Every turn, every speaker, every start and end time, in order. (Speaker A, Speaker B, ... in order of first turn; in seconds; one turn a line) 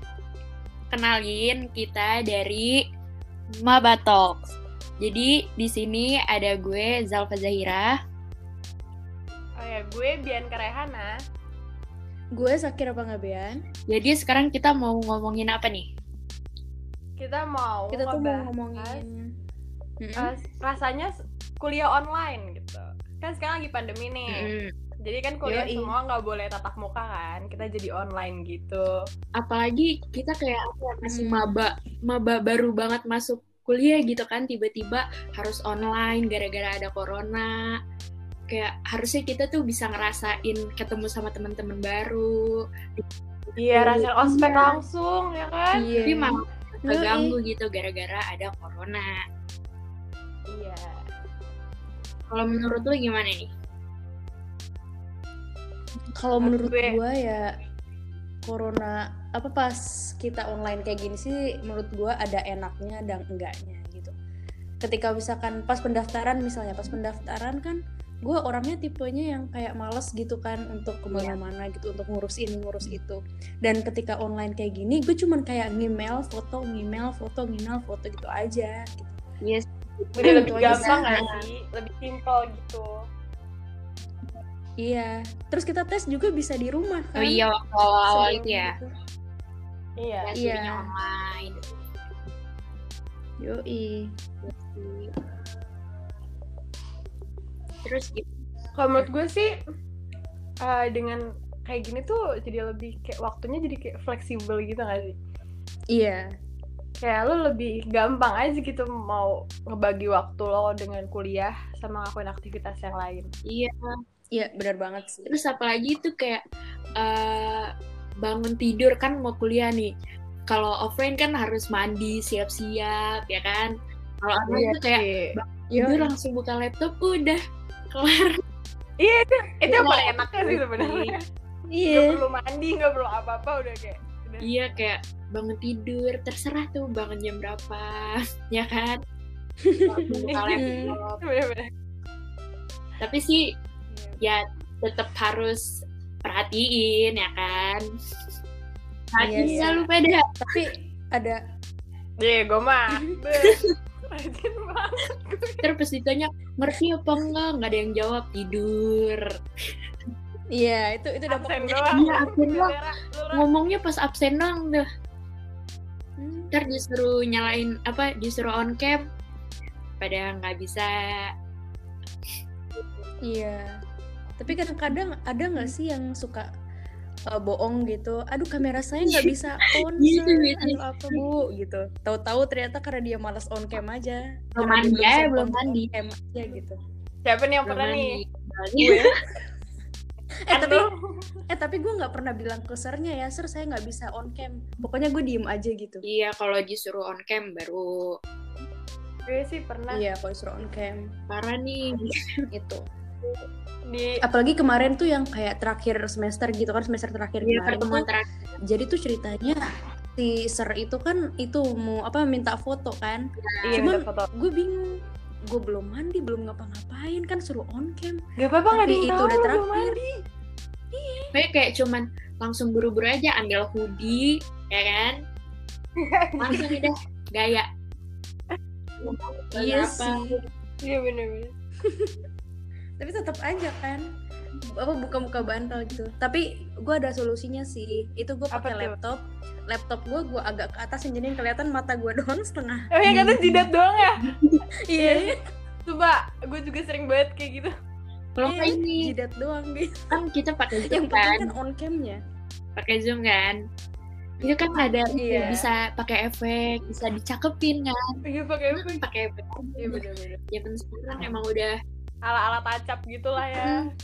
Speaker A: 0.9-2.8
Speaker A: 3.6-7.9
Speaker B: 9.6-11.1
Speaker C: 12.3-13.6
Speaker A: 13.9-15.9
Speaker B: 17.2-19.0
Speaker C: 17.9-19.3
Speaker C: 20.0-20.3
Speaker B: 20.2-24.5
Speaker A: 24.3-24.7
Speaker B: 25.0-29.0
Speaker C: 25.4-25.9
Speaker A: 29.4-37.5
Speaker C: 31.0-31.6
Speaker A: 38.5-44.7
Speaker B: 43.6-45.9
Speaker C: 45.7-47.4
Speaker A: 46.0-49.1
Speaker B: 50.5-51.0
Speaker A: 52.3-53.5
Speaker C: 56.1-57.5
Speaker B: 56.4-57.0
Speaker C: 58.5-64.1
Speaker C: 64.8-79.2
Speaker A: 71.1-71.4
Speaker A: 79.4-81.4
Speaker B: 80.2-82.9
Speaker C: 80.2-81.3
Speaker C: 84.8-87.4
Speaker A: 87.2-88.8
Speaker C: 88.1-88.9
Speaker B: 90.0-90.3
Speaker A: 90.2-91.6
Speaker C: 90.3-90.9
Speaker C: 93.4-94.0
Speaker A: 94.4-95.1
Speaker A: 97.8-98.3
Speaker B: 98.8-99.5
Speaker B: 100.6-105.1
Speaker C: 105.9-106.3
Speaker B: 107.0-113.3
Speaker C: 114.3-115.3
Speaker A: 115.2-116.4
Speaker A: 117.0-117.7
Speaker A: 118.2-119.9
Speaker A: 120.5-127.4
Speaker B: 124.5-125.3
Speaker C: 125.7-126.1
Speaker A: 127.9-128.4
Speaker B: 129.0-131.2
Speaker A: 129.7-131.1
Speaker C: 131.7-132.2
Speaker B: 131.8-134.7
Speaker A: 134.4-139.0
Speaker C: 139.7-140.0
Speaker A: 139.8-141.2
Speaker B: 140.1-141.7
Speaker C: 140.6-140.9
Speaker A: 143.0-143.4
Speaker C: 143.9-144.2
Speaker A: 144.2-145.7
Speaker A: 146.2-147.8
Speaker A: 149.1-150.2
Speaker C: 149.2-149.9
Speaker B: 149.4-149.7
Speaker C: 150.4-151.4
Speaker B: 152.2-155.7
Speaker A: 155.6-159.2
Speaker C: 160.5-162.1
Speaker B: 161.3-163.4
Speaker A: 161.9-162.8
Speaker A: 163.3-164.8
Speaker C: 166.2-166.7
Speaker A: 166.5-169.0
Speaker A: 170.0-170.9
Speaker C: 173.2-173.8
Speaker C: 174.4-176.5
Speaker C: 177.3-186.8
Speaker A: 180.0-181.2
Speaker A: 184.6-185.9
Speaker B: 187.2-188.1
Speaker A: 187.7-189.0
Speaker B: 188.8-189.1
Speaker C: 190.5-190.9
Speaker B: 190.5-190.9
Speaker C: 191.5-196.0
Speaker A: 196.0-198.0
Speaker B: 199.2-200.0
Speaker C: 199.9-201.0
Speaker A: 201.3-202.1
Speaker C: 202.5-202.8
Speaker B: 203.9-204.2
Speaker C: 204.2-208.1
Speaker A: 207.4-208.3
Speaker C: 208.7-209.6
Speaker C: 210.2-213.2
Speaker A: 213.4-213.8
Speaker B: 213.6-214.3
Speaker C: 213.7-218.2
Speaker B: 218.4-220.2
Speaker C: 218.7-220.0
Speaker B: 220.9-221.3
Speaker A: 221.3-225.1
Speaker B: 226.0-226.8
Speaker A: 226.4-227.7
Speaker A: 229.0-230.4
Speaker C: 229.5-230.4
Speaker B: 230.8-231.5
Speaker C: 231.9-232.1
Speaker C: 233.0-234.0
Speaker C: 234.8-242.9
Speaker B: 238.5-238.9
Speaker B: 242.9-244.2
Speaker A: 243.0-243.7
Speaker C: 244.9-245.4
Speaker B: 245.0-245.3
Speaker B: 245.8-247.7
Speaker A: 248.4-249.1
Speaker C: 248.4-250.1
Speaker A: 250.1-251.5
Speaker C: 250.7-252.2
Speaker A: 252.8-253.6
Speaker A: 254.4-258.0
Speaker C: 255.1-255.6
Speaker B: 255.2-255.6
Speaker B: 258.2-259.0
Speaker A: 258.8-261.7
Speaker B: 259.8-260.4
Speaker B: 262.2-263.8